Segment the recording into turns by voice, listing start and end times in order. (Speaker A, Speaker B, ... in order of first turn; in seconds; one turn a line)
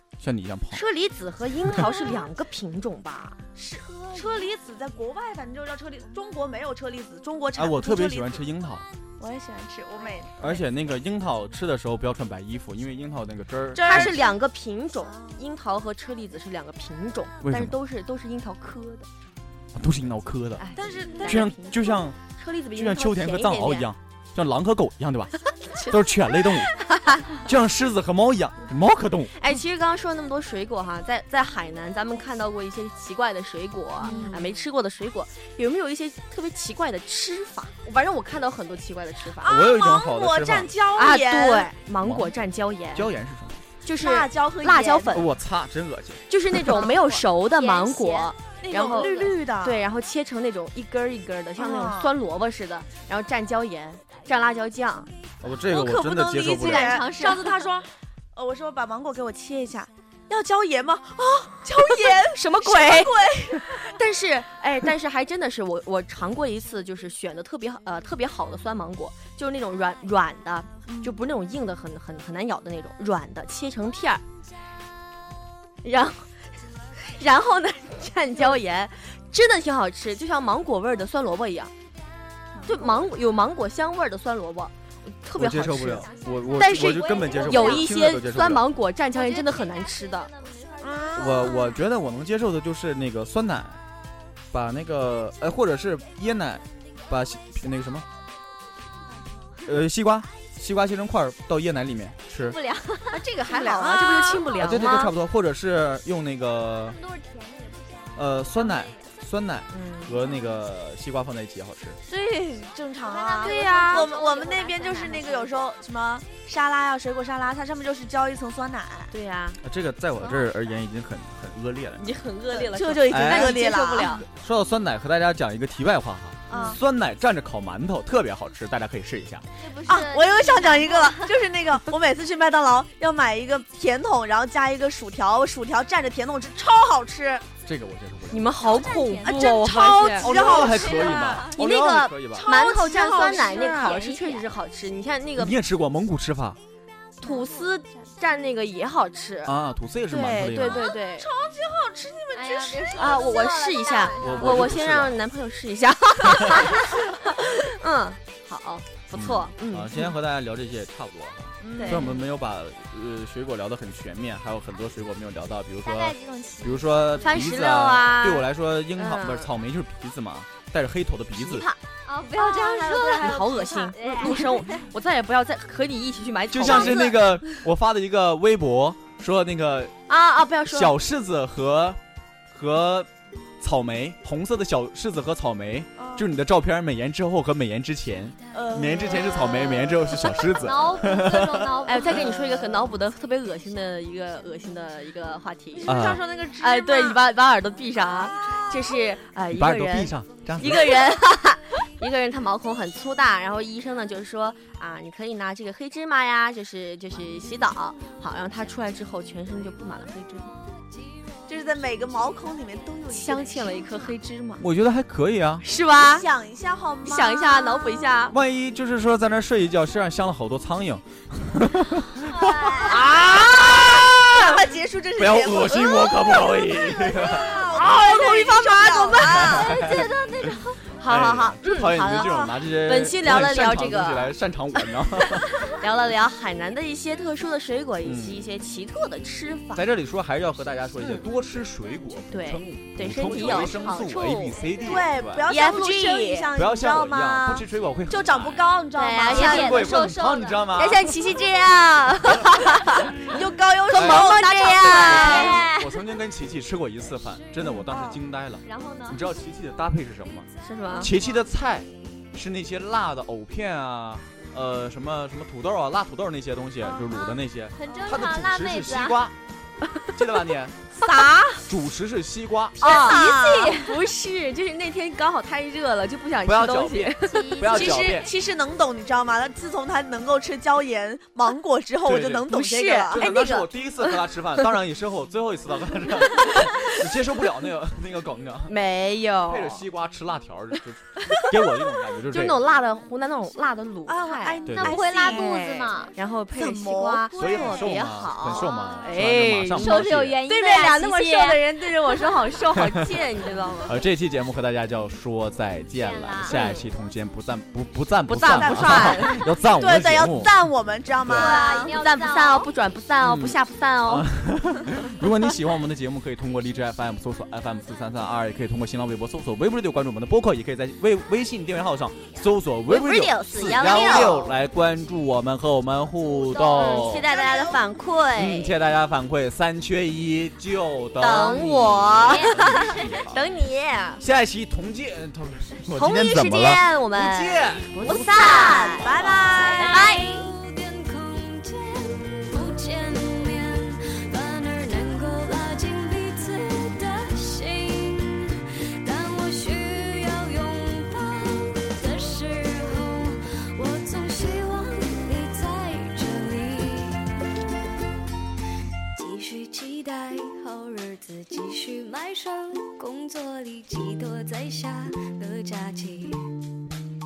Speaker A: 0.2-0.8
Speaker B: 0.7-3.4
Speaker C: 3.5-8.4
Speaker A: 7.5-8.8
Speaker C: 9.2-10.6
Speaker A: 10.4-14.2
Speaker C: 13.8-14.3
Speaker B: 13.8-19.1
Speaker A: 17.4-17.8
Speaker A: 19.7-20.6
Speaker B: 20.6-23.9
Speaker C: 20.7-21.5
Speaker A: 21.2-22.2
Speaker A: 22.7-26.7
Speaker B: 26.8-27.3
Speaker A: 27.3-29.3
Speaker B: 29.4-39.6
Speaker C: 34.0-34.5
Speaker D: 34.0-34.3
Speaker C: 39.4-41.7
Speaker A: 39.4-40.7
Speaker B: 40.9-43.1
Speaker A: 42.0-42.4
Speaker A: 42.9-43.6
Speaker B: 43.8-45.3
Speaker C: 44.0-45.2
Speaker A: 45.1-46.2
Speaker B: 46.3-55.1
Speaker C: 46.5-47.2
Speaker D: 46.7-49.3
Speaker C: 48.6-49.8
Speaker C: 51.6-52.1
Speaker A: 55.4-57.0
Speaker C: 55.7-63.8
Speaker B: 56.3-57.6
Speaker D: 57.1-57.5
Speaker B: 61.8-74.2
Speaker C: 70.8-71.2
Speaker B: 75.8-76.3
Speaker B: 77.0-81.7
Speaker C: 82.5-82.9
Speaker B: 82.6-90.3
Speaker A: 85.3-88.6
Speaker D: 85.7-87.9
Speaker D: 89.1-91.8
Speaker C: 90.8-91.8
Speaker A: 91.1-93.8
Speaker A: 94.5-98.0
Speaker D: 99.1-99.6
Speaker A: 99.6-102.6
Speaker D: 102.4-103.2
Speaker B: 103.1-105.1
Speaker C: 103.4-104.6
Speaker A: 104.6-107.0
Speaker D: 106.8-109.1
Speaker A: 108.2-112.0
Speaker B: 109.7-110.2
Speaker C: 112.1-119.1
Speaker D: 113.0-115.7
Speaker B: 113.4-114.1
Speaker B: 119.1-119.6
Speaker A: 119.6-122.2
Speaker B: 122.0-124.2
Speaker C: 122.5-124.1
Speaker A: 123.1-129.4
Speaker B: 126.5-126.8
Speaker C: 126.5-126.8
Speaker D: 129.6-131.4
Speaker C: 129.9-137.5
Speaker A: 137.6-138.5
Speaker B: 138.3-140.3
Speaker D: 138.6-139.5
Speaker C: 139.2-141.5
Speaker A: 140.2-142.5
Speaker D: 140.3-141.5
Speaker B: 141.5-145.5
Speaker C: 142.3-144.0
Speaker D: 142.8-144.5
Speaker A: 145.4-146.6
Speaker B: 147.2-149.5
Speaker D: 147.2-148.1
Speaker A: 149.4-150.9
Speaker B: 150.1-151.3
Speaker C: 151.2-153.2
Speaker D: 152.3-154.7
Speaker B: 152.9-160.0
Speaker A: 154.2-155.2
Speaker A: 159.2-171.7
Speaker C: 161.6-162.2
Speaker B: 161.8-162.1
Speaker D: 165.8-167.4
Speaker B: 167.2-169.5
Speaker B: 171.4-171.8
Speaker D: 172.1-174.8
Speaker B: 172.4-177.3
Speaker A: 176.5-179.9
Speaker B: 180.1-180.9
Speaker A: 180.7-182.0
Speaker A: 182.5-183.1
Speaker A: 183.6-191.8
Speaker C: 186.0-186.3
Speaker C: 188.5-190.7
Speaker D: 190.3-192.7
Speaker B: 191.8-196.0
Speaker C: 191.9-192.9
Speaker C: 195.7-197.2
Speaker A: 195.8-196.2
Speaker B: 196.6-210.5
Speaker A: 199.5-201.1
Speaker C: 211.5-214.1
Speaker B: 213.1-214.6
Speaker A: 214.6-215.6
Speaker B: 215.6-216.3
Speaker C: 216.0-217.8
Speaker B: 217.0-218.3
Speaker A: 218.3-227.8
Speaker D: 222.2-223.1
Speaker C: 222.8-229.9
Speaker B: 227.8-229.4
Speaker D: 227.8-230.8
Speaker A: 229.2-235.5
Speaker B: 231.0-234.3
Speaker C: 232.0-232.6
Speaker B: 235.1-239.8
Speaker A: 238.0-238.4
Speaker A: 239.7-245.5
Speaker B: 242.3-244.6
Speaker D: 244.6-245.0
Speaker C: 244.8-249.8
Speaker B: 245.4-246.5
Speaker A: 246.5-248.7
Speaker B: 248.9-249.9
Speaker D: 249.3-250.7
Speaker A: 249.3-251.1
Speaker B: 250.7-253.3
Speaker C: 253.2-255.6
Speaker B: 253.9-255.7
Speaker A: 253.9-269.3
Speaker D: 254.3-255.8
Speaker C: 257.6-258.2
Speaker D: 258.6-259.2
Speaker B: 260.6-261.1
Speaker D: 266.9-269.2
Speaker A: 270.1-271.1
Speaker B: 271.0-271.6
Speaker A: 271.6-273.0
Speaker B: 272.8-277.6
Speaker C: 272.8-273.8
Speaker D: 272.9-273.9
Speaker A: 276.4-278.3
Speaker D: 277.2-278.3
Speaker C: 277.6-283.3
Speaker A: 282.0-282.5
Speaker B: 282.5-283.7
Speaker A: 283.1-288.7
Speaker B: 288.7-289.8
Speaker A: 289.5-292.6
Speaker B: 292.2-304.0
Speaker C: 294.1-295.7
Speaker A: 294.6-295.0
Speaker D: 294.7-296.1
Speaker C: 296.5-297.5
Speaker A: 297.3-300.4
Speaker D: 297.4-299.1
Speaker D: 299.7-301.6
Speaker A: 302.8-303.1
Speaker A: 303.9-310.5
Speaker D: 305.9-306.6
Speaker B: 306.5-306.9
Speaker B: 308.3-309.4
Speaker C: 308.6-311.6
Speaker D: 311.3-312.7
Speaker B: 311.3-314.3
Speaker A: 313.2-327.3
Speaker B: 322.9-324.6
Speaker D: 326.2-327.2
Speaker B: 326.7-328.7
Speaker C: 327.2-327.8
Speaker A: 328.4-333.4
Speaker B: 331.2-334.2
Speaker D: 332.1-333.2
Speaker A: 334.2-338.6
Speaker B: 335.9-340.5
Speaker C: 338.0-340.1
Speaker D: 338.3-340.3
Speaker E: 339.1-357.2
Speaker E: 359.1-366.6